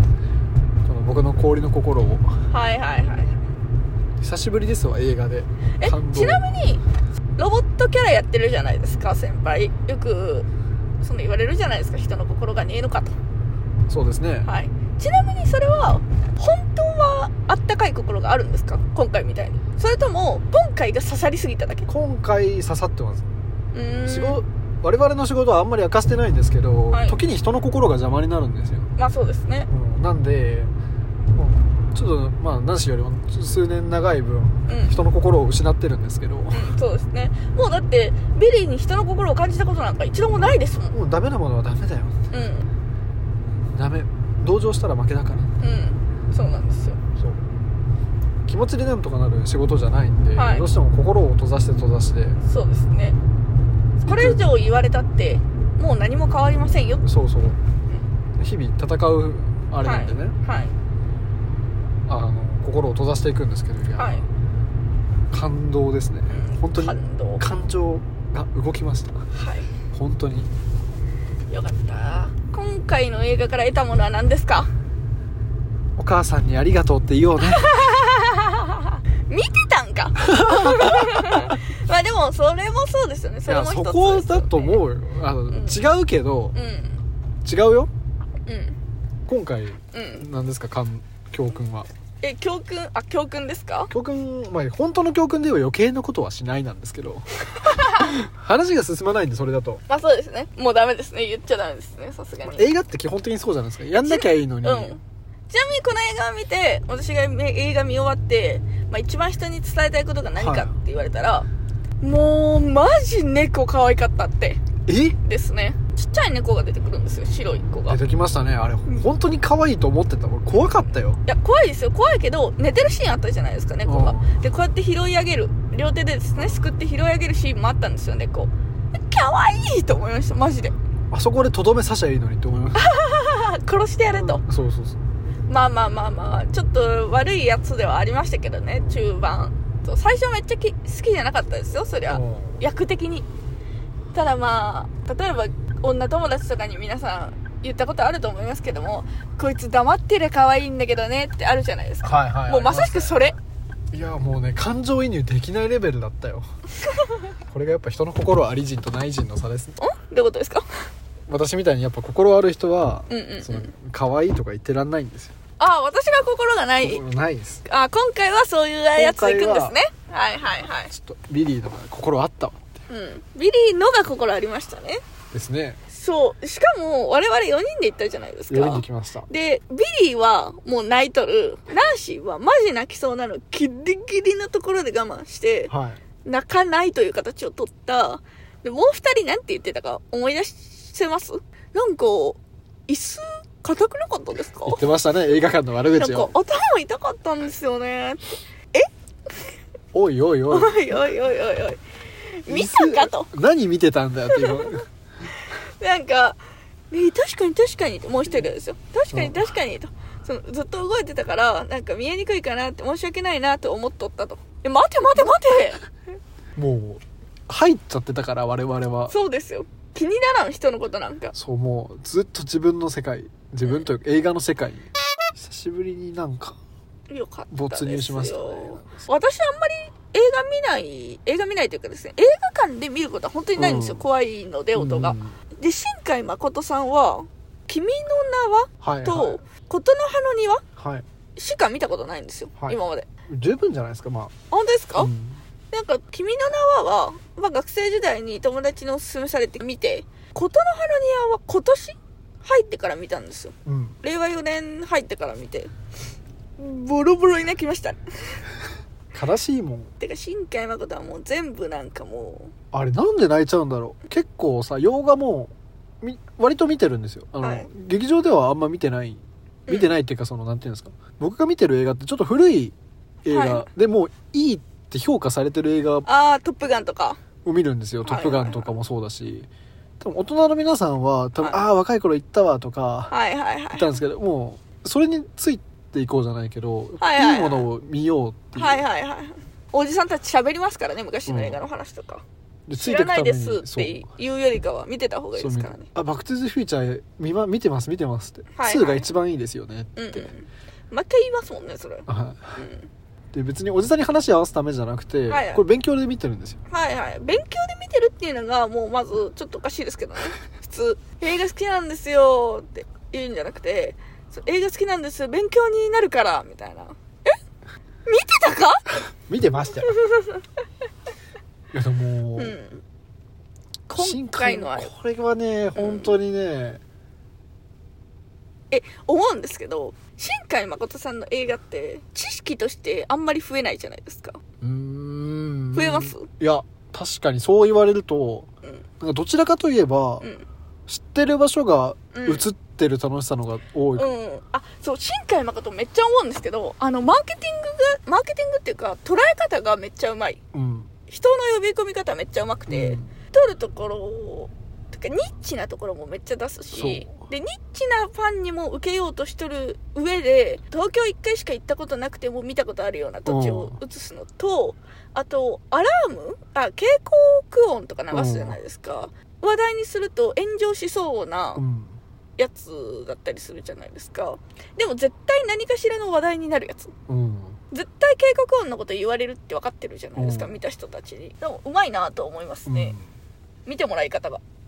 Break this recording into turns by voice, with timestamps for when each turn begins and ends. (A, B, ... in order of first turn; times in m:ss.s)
0:00.8-0:02.4 A
0:02.5-0:03.4 B
0:04.2-0:06.4 A
0:05.8-0:06.8 B
0:07.4-0:10.5 B
0:11.0-0:13.2 B
0:13.9-0:14.5 A
0:14.4-0:21.9 B
0:21.9-0:23.2 A
0:23.7-0:24.4 B
0:24.0-0:28.9 A
0:26.9-0:27.2 B
0:29.0-0:29.7 B
0:29.7-0:30.7 A
0:31.3-0:36.7 A
0:34.7-0:34.9 B
0:36.5-0:41.0 B
0:40.3-0:42.2 A
0:42.3-0:42.7 B
0:43.7-0:45.5 A
0:45.6-0:47.0 B
0:48.4-0:52.4 A
0:50.4-0:50.7 B
0:52.4-0:53.2 B
0:54.0-0:57.0 B
0:54.0-0:54.5 A
0:57.0-0:57.6 A
0:58.4-1:00.3 A
0:59.8-1:00.7 B
1:02.1-1:04.2 A
1:04.0-1:04.2 B
1:05.3-1:09.2 A
1:06.3-1:07.4 B
1:09.3-1:09.7 B
1:09.9-1:10.5 A
1:11.5-1:14.7 B
1:16.0-1:17.7 A
1:17.4-1:24.8 B
1:20.2-1:21.6 A
1:23.5-1:26.6 A
1:25.5-1:25.8 B
1:26.5-1:27.0 B
1:27.4-1:27.9 A
1:28.5-1:28.8 B
1:29.3-1:31.9 A
1:29.9-1:30.2 B
1:32.2-1:33.9 B
1:33.9-1:39.8 A
1:37.6-1:38.1 B
1:39.9-1:42.7 B
1:42.5-1:45.0 A
1:43.9-1:51.5 B
1:50.4-1:50.7 A
1:52.0-1:54.6 B
1:54.9-1:55.2 A
1:55.2-1:58.0 B
1:57.9-2:01.2 A
2:00.5-2:10.7 B
2:03.8-2:04.4 A
2:11.1-2:12.9 A
2:12.7-2:14.4 B
2:14.1-2:15.0 A
2:15.5-2:23.3 B
2:22.1-2:22.6 A
2:24.1-2:33.4 B
2:32.0-2:33.3 A
2:33.9-2:36.5 A
2:37.5-2:39.8 A
2:39.8-2:40.7 B
2:41.3-2:45.3 A
2:43.1-2:43.7 B
2:45.6-2:47.0 B
2:46.8-2:47.6 A
2:47.6-2:50.9 B
2:48.9-2:49.8 A
2:50.9-2:52.7 A
2:52.9-2:55.0 B
2:55.3-2:55.8 A
2:55.9-3:05.7 B
2:58.5-2:59.3 A
3:05.7-3:06.0 A
3:06.2-3:14.8 B
3:14.6-3:16.3 A
3:15.9-3:18.9 B
3:19.9-3:20.9 A
3:20.5-3:21.8 B
3:22.3-3:23.3 B
3:22.5-3:24.8 A
3:24.3-3:24.7 B
3:25.3-3:26.4 B
3:26.9-3:35.8 B
3:29.1-3:29.5 A
3:36.6-3:39.1 A
3:39.1-3:41.3 B
3:41.3-3:46.6 A
3:47.1-4:00.6 B
3:47.5-3:49.0 A
3:53.6-3:54.0 A
3:54.7-3:55.4 A
3:58.8-3:59.4 A
4:00.8-4:01.0 A
4:01.4-4:03.1 B
4:02.6-4:04.3 A
4:04.5-4:05.1 B
4:05.0-4:05.4 A
4:05.7-4:15.7 B
4:13.6-4:14.0 A
4:16.6-4:18.4 B
4:19.1-4:19.9 A
4:20.0-4:22.5 B
4:22.7-4:36.1 A
4:27.4-4:27.7 B
4:29.7-4:29.9 B
4:33.3-4:33.7 B
4:36.0-4:37.2 B
4:37.4-4:39.5 A
4:38.0-4:38.7 B
4:40.0-4:43.1 A
4:43.1-4:44.0 B
4:43.7-4:48.8 A
4:47.0-4:47.7 B
4:48.6-4:52.2 B
4:51.3-4:51.6 A
4:52.7-4:54.0 A
4:52.8-4:55.9 B
4:55.4-5:00.3 A
4:58.5-4:59.1 B
5:00.0-5:02.9 B
5:02.1-5:02.6 A
5:03.3-5:06.6 A
5:05.3-5:05.6 B
5:06.7-5:17.4 B
5:18.0-5:18.9 B
5:19.3-5:19.9 A
5:19.9-5:20.4 B
5:21.7-5:22.6 A
5:22.4-5:22.8 B
5:23.9-5:24.9 B
5:24.0-5:26.8 A
5:25.8-5:26.2 B
5:28.7-5:34.4 B
5:34.6-5:40.3 A
5:35.7-5:36.3 B
5:40.2-5:40.4 B
5:40.9-5:44.1 A
5:42.1-5:42.4 B
5:44.0-5:50.4 B
5:50.5-5:50.9 A
5:51.1-6:11.6 B
5:52.7-5:53.1 A
5:56.7-5:57.1 A
6:03.2-6:03.8 A
6:08.1-6:08.6 A
6:11.6-6:12.0 A
6:12.4-6:16.9 B
6:17.1-6:17.6 A
6:17.7-6:23.0 B
6:20.2-6:20.6 A
6:22.7-6:23.1 A
6:23.6-6:24.4 B